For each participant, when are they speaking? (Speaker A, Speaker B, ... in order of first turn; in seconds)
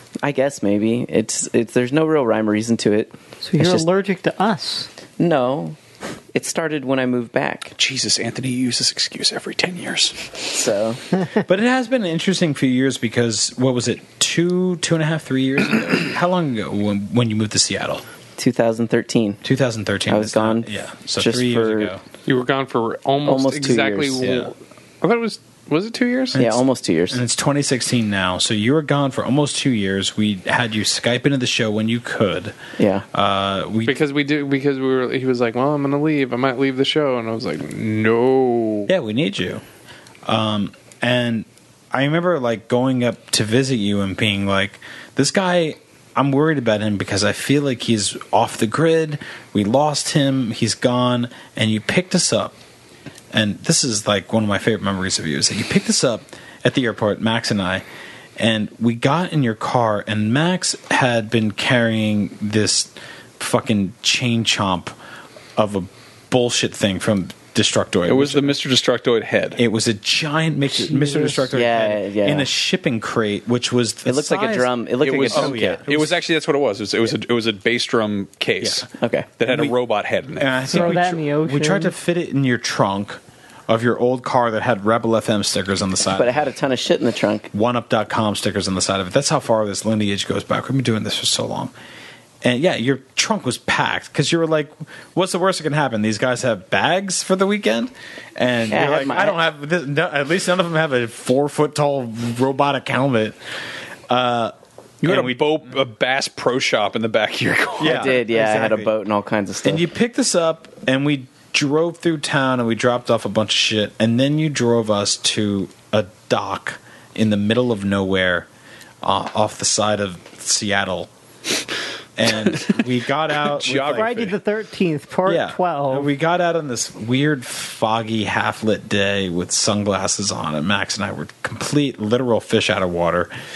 Speaker A: 0.2-3.9, 5.2-5.8, 6.3-7.7, 10.5-11.0, 18.4-19.4, 20.1-21.9, 23.2-24.2, 26.4-27.2, 32.8-33.0, 71.5-72.5, 74.1-75.8, 79.0-79.3, 86.2-87.5, 98.7-99.4, 107.8-109.8
Speaker B: 3.4-4.9, 70.8-71.5, 80.7-81.9, 123.9-126.1
Speaker C: 7.8-10.2, 68.1-69.6, 75.0-80.5, 105.0-108.1, 123.5-124.3
Speaker D: 11.4-18.0, 19.4-22.0, 24.2-24.5, 26.4-32.6, 33.1-34.0, 38.9-39.6, 40.2-52.5, 53.3-57.8, 58.4-64.9, 65.6-68.5, 69.6-74.7, 75.3-76.1, 78.6-78.9, 79.5-79.7, 80.4-86.4, 87.5-91.7, 92.4-103.4, 104.1-105.4, 107.8-108.9, 109.7-118.5, 119.0-121.1, 122.2-124.3, 125.3-133.3
Speaker E: 22.3-26.4, 33.9-38.9